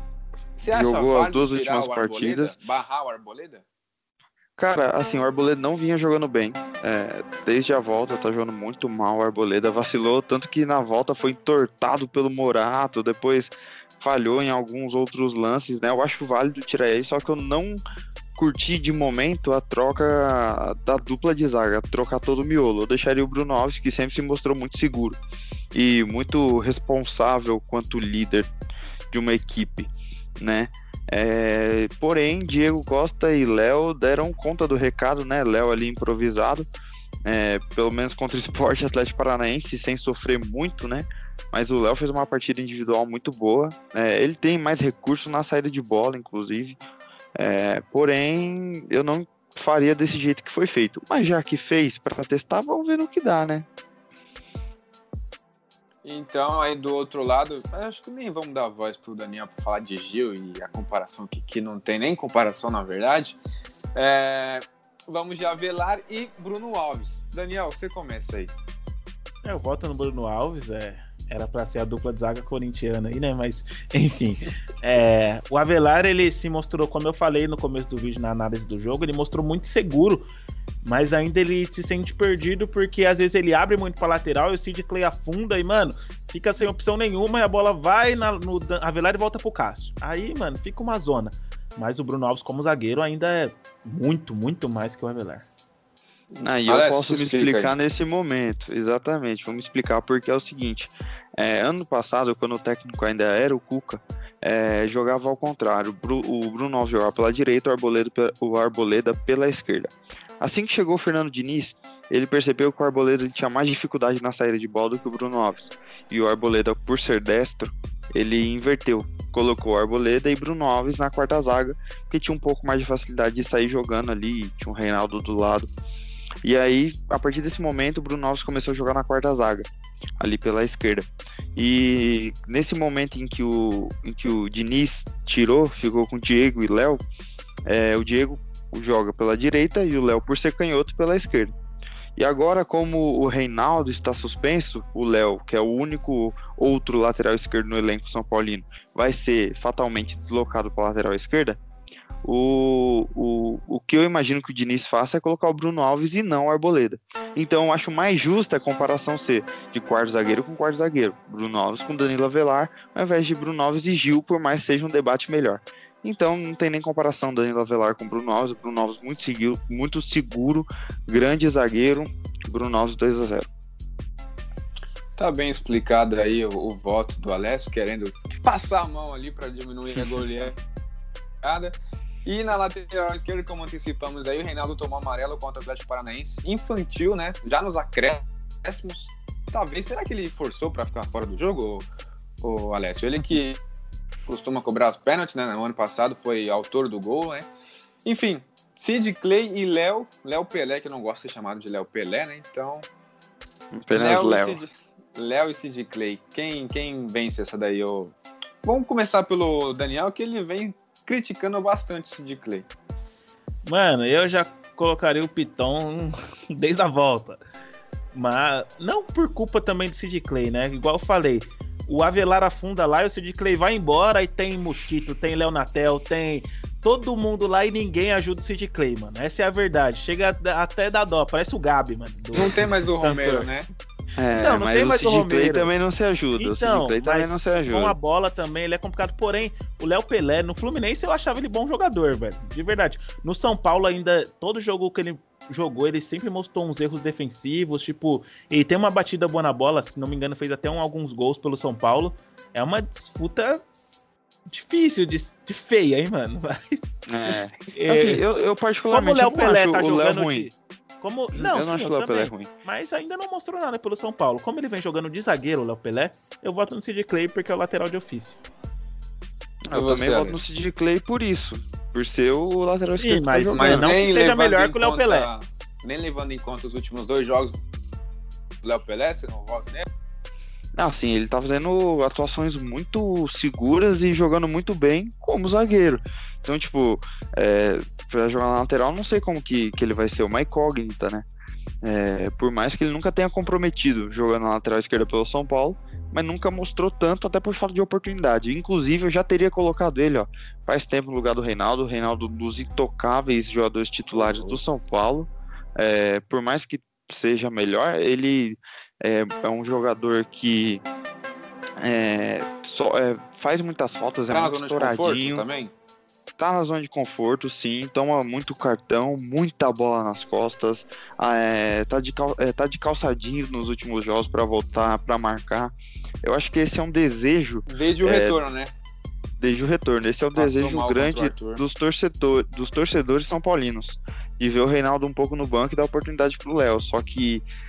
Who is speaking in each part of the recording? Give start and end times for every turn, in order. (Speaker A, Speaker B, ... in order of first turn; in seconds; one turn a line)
Speaker A: 0.6-3.6
Speaker B: 0.7-2.5
Speaker B: 4.6-17.8
Speaker B: 18.4-25.2
Speaker B: 25.7-28.5
Speaker B: 29.1-36.7
Speaker B: 37.3-46.8
Speaker B: 47.4-53.7
Speaker A: 56.0-63.4
Speaker A: 64.0-68.5
Speaker C: 69.4-80.3
Speaker C: 80.8-95.5
Speaker A: 96.3-97.7
Speaker B: 96.4-125.7
Speaker B: 126.4-129.7
Speaker B: 130.2-137.0
Speaker B: 137.7-141.5
Speaker B: 142.2-151.6
Speaker B: 152.2-173.5
Speaker A: 175.2-180.6
Speaker A: 181.4-181.7
Speaker A: 182.2-191.8
Speaker A: 192.4-193.6
Speaker A: 194.3-197.5
Speaker A: 198.1-202.8
Speaker B: 203.7-204.6
Speaker A: 203.9-212.7
Speaker C: 213.7-217.4
Speaker C: 218.1-233.5
Speaker A: 232.3-233.7
Speaker B: 234.2-238.0
Speaker C: 234.3-235.7
Speaker C: 236.4-253.6
Speaker C: 254.5-256.9
Speaker B: 257.1-260.5
Speaker C: 257.7-258.2
Speaker C: 258.9-268.4
Speaker B: 261.3-262.5
Speaker B: 269.7-273.9
Speaker A: 269.7-270.4
Speaker C: 273.0-275.3
Speaker A: 273.5-277.6
Speaker A: 278.6-279.8
Speaker B: 280.8-291.2
Speaker B: 291.8-310.8
Speaker A: 304.1-304.6
Speaker B: 311.8-315.5
Speaker A: 314.3-315.7
Speaker B: 316.4-328.4
Speaker A: 327.7-328.7
Speaker B: 329.4-337.4
Speaker A: 330.4-331.6